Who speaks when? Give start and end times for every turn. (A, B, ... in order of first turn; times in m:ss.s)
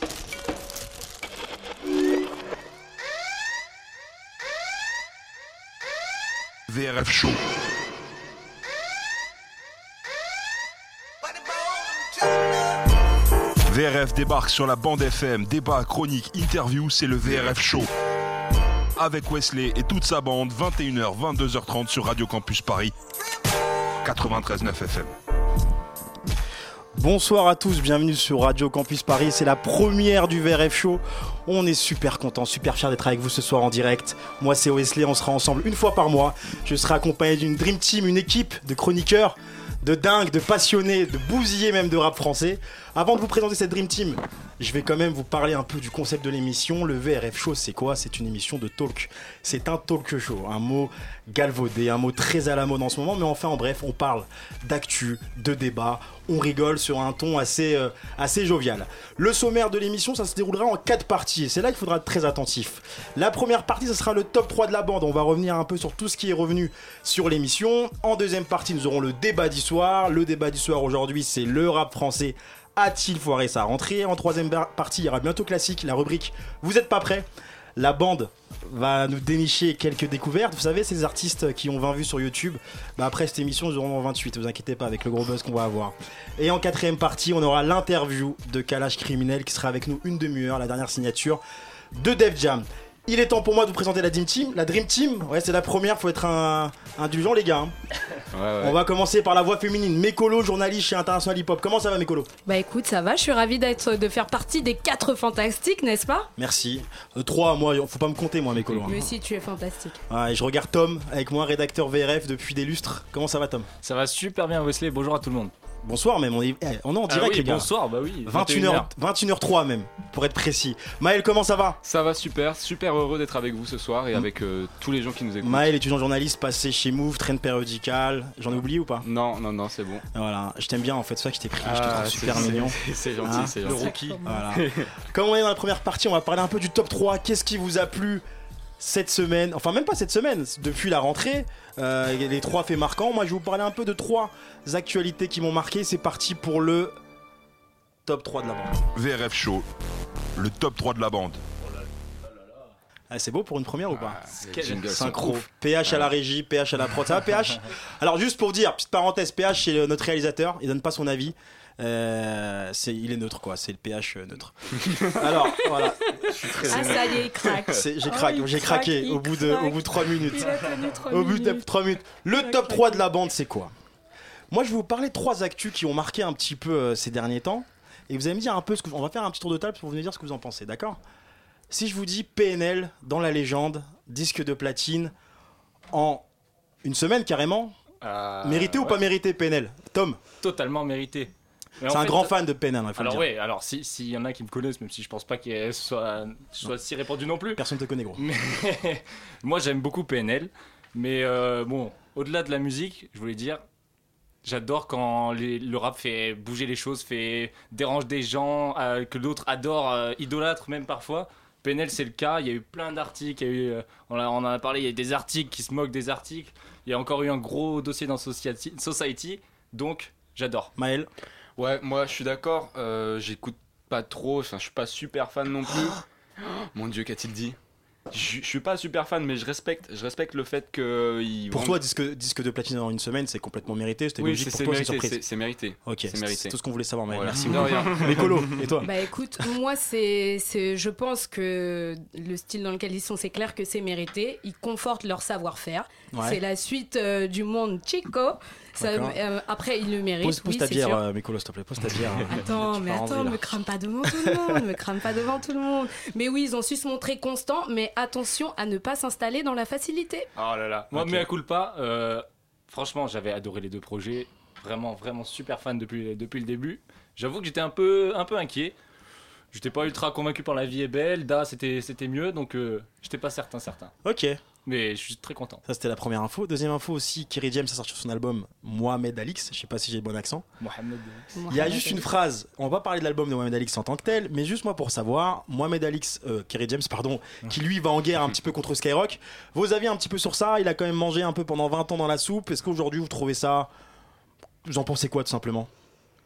0:06.7-0:07.4 A
0:13.7-0:17.9 A
0:19.0-0:22.9 A
0:24.0-0:25.1 A
0:27.0-1:31.4 B
1:31.9-1:37.7 B
1:38.3-1:38.8 C
1:38.6-1:42.3 B
1:42.4-1:46.3 D
1:46.4-1:49.0 B
1:48.8-1:50.0 D
1:50.1-1:53.7 B
1:53.8-1:55.5 E
1:55.8-1:57.7 B
1:57.1-1:58.9 E
1:58.2-2:01.8 B
2:01.8-2:05.7 C
2:05.4-2:09.1 B
2:09.0-2:10.0 C
2:10.1-2:13.6 B
2:11.6-2:13.9 C
2:13.3-2:14.2 E
2:13.7-2:14.5 D
2:14.2-2:18.2 B
2:14.5-2:14.9 C
2:18.8-2:26.9 B
2:28.0-2:28.8 B
2:28.9-2:29.6 A
2:30.4-2:31.4 A
2:31.6-2:32.7 E
2:33.1-2:34.2 B
2:34.0-2:36.1 C
2:34.3-2:35.2 E
2:34.8-2:44.5 B
2:44.8-2:45.1 C
2:45.1-2:47.1 B
2:45.7-2:51.6 D
2:46.4-2:47.5 C
2:47.7-2:53.7 B
2:52.4-2:53.0 D
2:54.5-3:01.0 B
3:01.7-3:05.1 B
3:05.9-3:06.2 B
3:06.8-3:07.7 B
3:08.0-3:09.0 E
3:08.4-3:10.2 B
3:10.4-3:12.3 E
3:11.9-3:13.3 B
3:13.0-3:17.6 E
3:17.6-3:18.2 B
3:18.2-3:23.6 E
3:24.4-3:40.7 E
3:40.8-3:41.1 B
3:41.6-3:46.0 C
3:46.7-3:47.6 C
3:48.1-3:51.8 C
3:51.5-3:55.2 B
3:54.2-3:56.5 C
3:55.8-3:58.9 B
3:57.1-3:58.4 C
3:58.8-4:11.0 D
4:06.1-4:06.4 B
4:08.8-4:09.2 B
4:10.2-4:13.4 B
4:12.4-4:20.3 D
4:14.0-4:14.4 B
4:20.4-4:28.7 E
4:20.9-4:21.2 B
4:29.5-4:33.9 E
4:34.0-4:34.4 B
4:34.6-4:35.6 E
4:35.6-4:40.4 B
4:40.6-4:41.3 E
4:41.4-4:42.0 D
4:41.5-4:53.7 B
4:54.6-4:55.7 B